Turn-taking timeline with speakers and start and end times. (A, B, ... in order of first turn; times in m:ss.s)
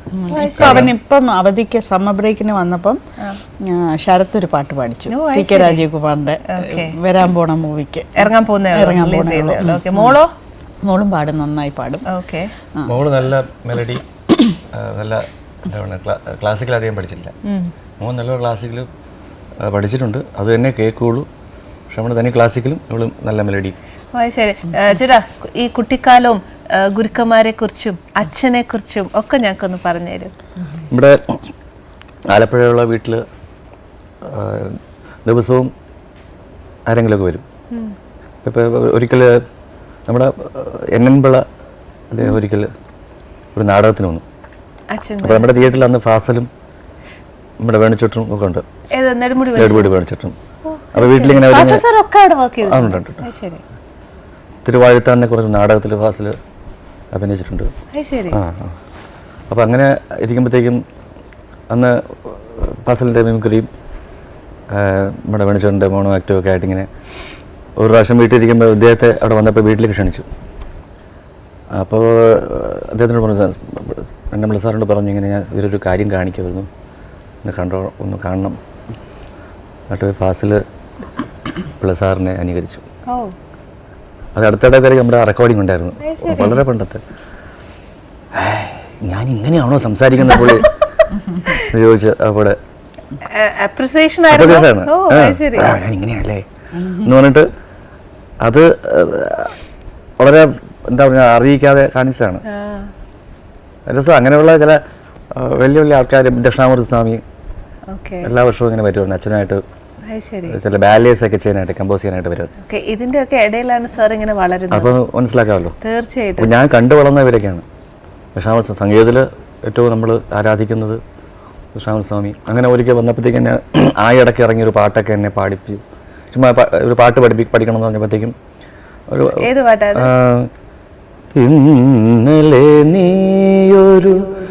0:00.2-0:03.0 A
0:00.3-0:00.9 B
0:00.6-0:00.9 C
0:03.6-0:10.2 A
0:05.1-0:05.8 B
0:06.5-0:07.0 B
0:08.2-0:10.3 B
0:10.8-0:12.0 A
0:12.1-0:12.5 B
0:12.8-0:14.0 C
0:14.7-0:17.3 C
0:18.0-0:18.9 C
0:19.6-0:21.3 C
0:21.9-0:23.8 C
0:24.1-0:30.3 B
0:30.9-0:31.4 C
0:32.3-0:33.2 C
0:34.2-0:35.7 C
0:36.9-0:37.4 C
0:38.4-0:39.3 C
0:40.1-0:41.4 C
0:42.1-0:42.7 C
0:43.5-0:44.2 C
0:44.9-0:45.6 B
0:45.2-0:46.5 C
0:47.6-0:48.6 C
0:49.0-0:49.9 B
0:49.5-0:50.3 C
0:50.6-0:53.6 B
0:50.9-0:51.8 C
0:52.6-0:53.3 C
0:54.6-0:56.3 C
0:57.1-0:57.7 C
0:57.9-0:58.4 B
0:58.3-0:58.7 C
0:59.5-1:00.8 C
1:01.7-1:03.7 C
1:04.7-1:06.9 C
1:07.8-1:10.2 C
1:11.8-1:16.7 C
1:17.4-1:18.6 C
1:19.9-1:20.6 C
1:21.8-1:22.8 C
1:23.1-1:23.3 B
1:24.4-1:27.0 C
1:26.0-1:26.6 B
1:28.3-1:30.7 C
1:31.5-1:32.6 C
1:33.3-1:35.8 B
1:34.3-1:37.5 C
1:38.4-1:39.6 C
1:40.2-1:42.4 C
1:42.4-1:42.9 B
1:43.9-1:44.8 C
1:45.4-1:47.2 C
1:47.9-1:48.3 B
1:48.2-1:49.6 C
1:50.1-1:50.6 B
1:50.5-1:52.5 C
1:52.6-1:54.9 B
1:54.7-1:55.7 C
1:55.8-1:56.5 B
1:56.4-1:57.6 C
1:58.3-2:01.0 C
2:01.8-2:05.8 C
2:06.3-2:08.3 C
2:09.1-2:10.5 C
2:09.4-2:10.1 B
2:11.4-2:14.2 C